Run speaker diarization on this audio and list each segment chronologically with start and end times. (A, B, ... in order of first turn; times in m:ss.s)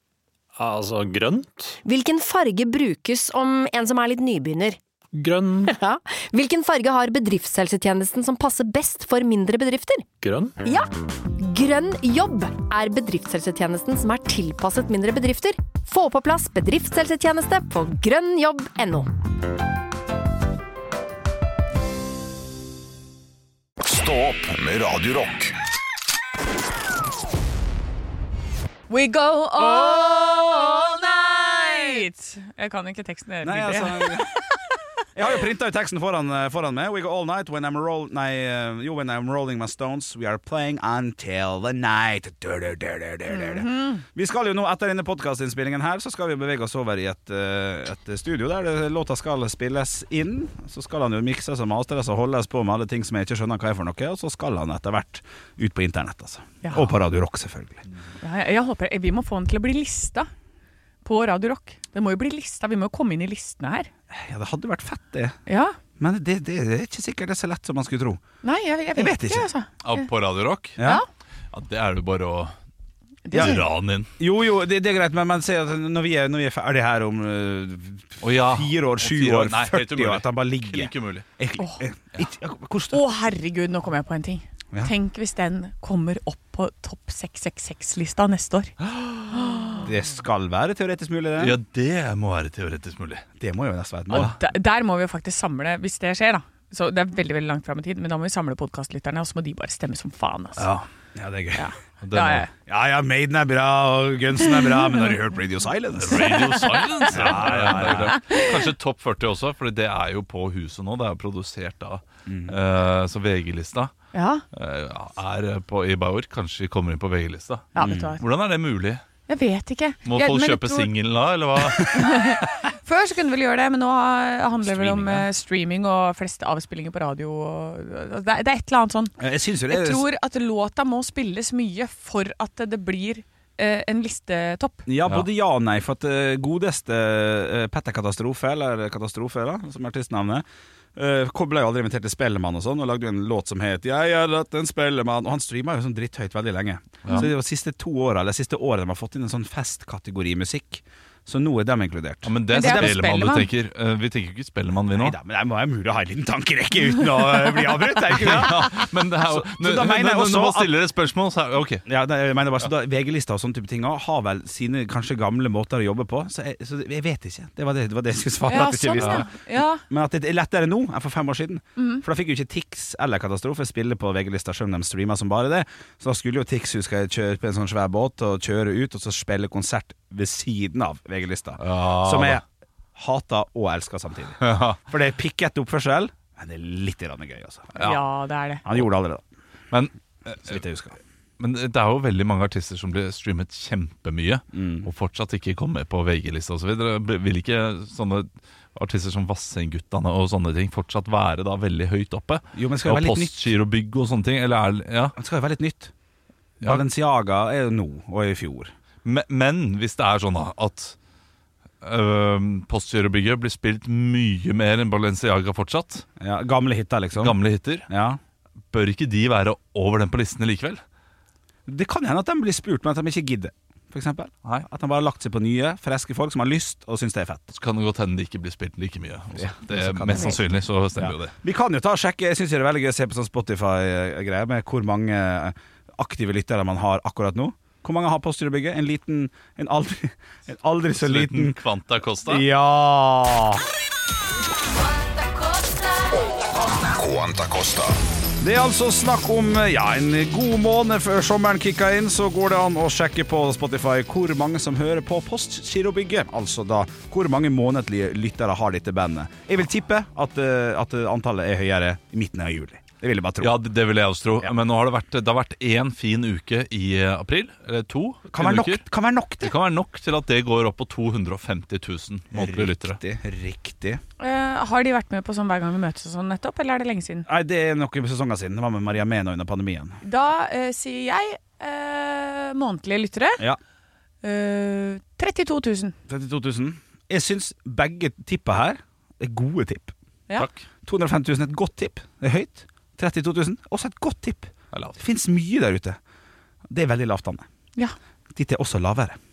0:00.6-0:01.8 A
0:01.8-0:04.8 B
0:05.1-0:05.7 A
0:05.7-0:10.0 B
0:10.2-0:10.6 A
0:10.6-0:19.1 B
0:23.8-0:25.5 C
0:28.9-0:34.8 D
0:29.6-0:30.0 E
0:33.4-0:34.3 E
0:35.1-0:57.8 E
0:43.3-0:44.0 D
0:56.6-0:56.9 D
0:58.2-1:00.3 D
1:01.0-1:03.9 D
1:04.1-1:05.4 E
1:05.5-1:05.7 D
1:06.0-1:08.2 E
1:08.4-1:10.1 D
1:08.9-1:09.5 E
1:09.8-1:10.8 F
1:10.8-1:11.0 E
1:10.8-1:11.0 D
1:11.5-1:12.5 F
1:13.2-1:13.6 D
1:13.3-1:13.6 E
1:13.3-1:14.1 F
1:14.2-1:23.0 E
1:18.2-1:21.2 F
1:21.6-1:21.8 D
1:22.9-1:28.7 D
1:28.8-1:29.3 F
1:29.3-1:29.9 D
1:29.8-1:31.6 E
1:31.4-1:33.2 F
1:33.4-1:34.3 E
1:34.1-1:40.7 D
1:40.6-1:40.8 F
1:41.1-1:41.6 E
1:41.6-1:42.5 D
1:42.0-1:42.4 F
1:42.7-1:46.4 E
1:46.0-1:53.9 F
1:46.1-1:48.5 D
1:47.1-1:48.2 E
1:52.3-1:52.6 E
1:54.1-1:54.4 D
1:54.5-1:59.0 F
1:57.7-1:58.2 D
1:57.8-1:58.2 E
1:59.3-2:00.9 D
2:00.0-2:02.4 F
2:01.9-2:09.2 D
2:04.6-2:05.3 F
2:09.2-2:10.0 E
2:09.7-2:14.8 D
2:14.9-2:20.4 E
2:21.0-2:33.1 E
2:32.2-2:35.2 F
2:32.5-2:33.5 D
2:34.9-2:40.7 E
2:38.1-2:41.8 F
2:41.8-2:49.3 E
2:48.5-2:49.8 D
2:49.0-2:49.3 F
2:49.8-3:02.4 E
2:51.8-2:52.0 D
3:01.6-3:02.4 F
3:02.9-3:07.7 E
3:04.4-3:04.8 F
3:07.8-3:08.6 D
3:08.6-3:09.2 E
3:09.7-3:10.6 F
3:10.3-3:11.0 E
3:11.4-3:25.2 F
3:14.5-3:14.9 E
3:22.5-3:23.5 E
3:25.2-3:25.9 E
3:26.6-3:28.7 E
3:29.0-3:30.9 F
3:31.8-3:36.0 F
3:36.2-3:38.2 E
3:37.2-3:37.9 F
3:38.7-3:40.8 F
3:41.6-3:47.4 E
3:47.5-3:51.3 F
3:49.3-3:50.4 E
3:51.0-4:01.6 E
4:01.0-4:02.4 F
4:02.2-4:03.6 E
4:06.8-4:08.0 C
4:08.4-4:23.6 E
4:23.4-4:28.8 F
4:28.3-4:29.5 E
4:29.4-4:33.0 F
4:32.3-4:34.0 E
4:34.2-4:37.3 D
4:37.3-4:40.0 E
4:40.0-4:43.4 D
4:44.2-4:45.9 D
4:46.1-4:49.9 E
4:50.8-4:56.0 E
4:54.7-4:55.0 F
4:56.7-4:57.5 E
4:58.3-4:59.2 E